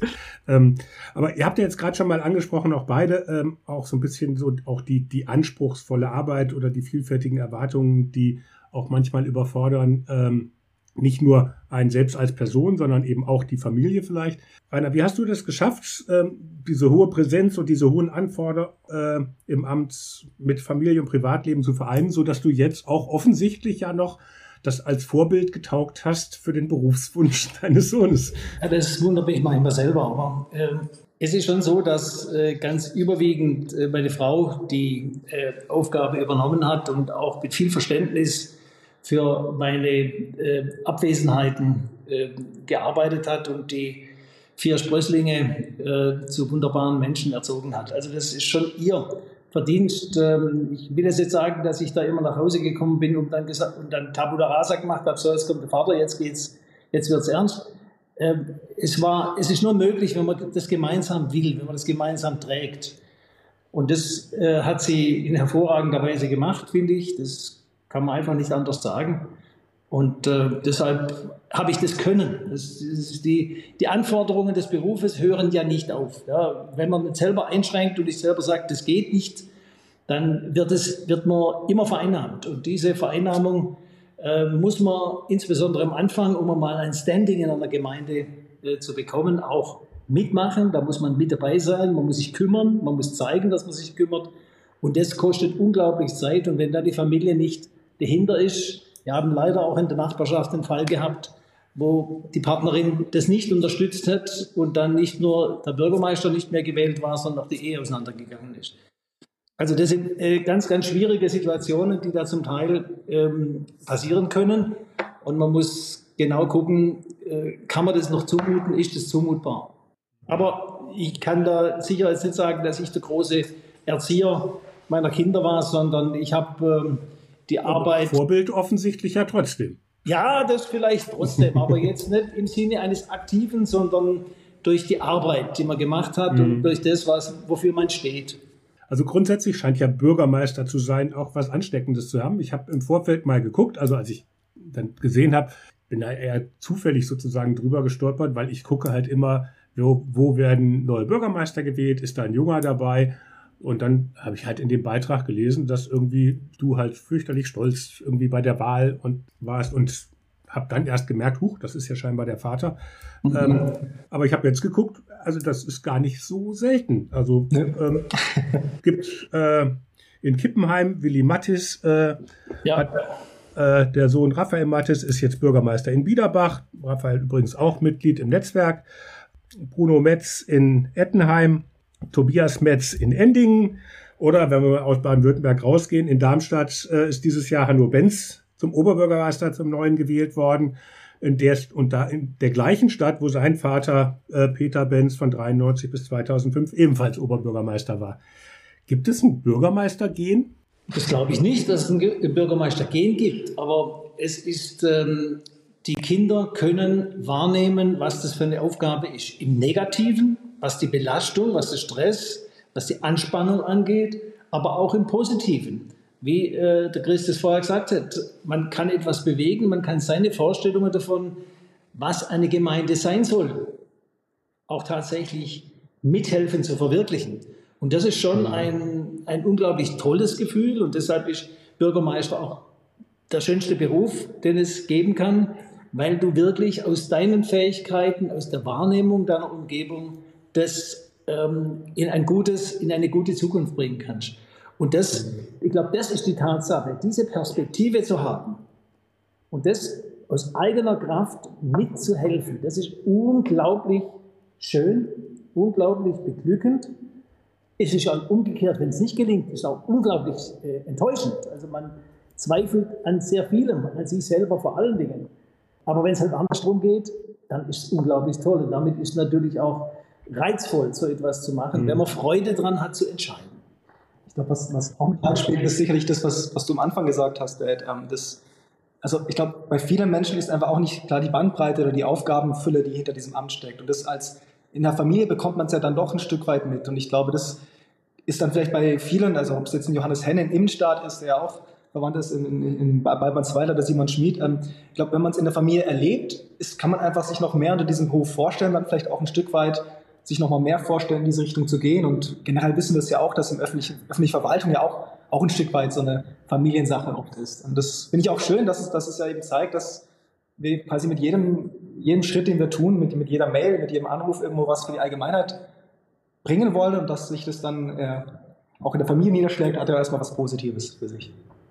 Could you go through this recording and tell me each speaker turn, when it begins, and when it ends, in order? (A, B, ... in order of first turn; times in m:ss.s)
0:00.5-0:28.4 A
0:28.6-1:03.0 B
1:03.7-1:09.3 B
1:09.9-1:19.5 B
1:20.1-1:48.8 B
1:49.6-1:59.8 B
2:00.3-2:08.2 B
2:07.6-2:09.8 A
2:10.0-2:18.4 B
2:16.3-2:16.7 A
2:18.9-2:42.8 A
2:43.2-2:43.7 B
2:43.3-2:48.1 A
2:47.5-2:48.6 C
2:48.8-2:52.2 A
2:52.6-2:52.9 B
2:52.7-2:53.0 A
2:53.5-2:58.8 A
2:59.6-3:18.2 A
3:18.9-3:20.5 A
3:20.9-3:41.4 B
3:41.9-3:43.8 B
3:44.7-3:52.7 B
3:48.3-3:48.7 A
3:53.3-4:08.6 B
4:09.5-4:16.9 B
4:17.8-4:25.3 B
4:25.8-4:33.6 B
4:31.7-4:32.0 A
4:34.3-4:38.4 C
4:39.0-4:47.6 C
4:48.2-5:10.0 C
5:10.6-5:15.7 C
5:16.4-5:18.3 C
5:18.8-5:21.3 C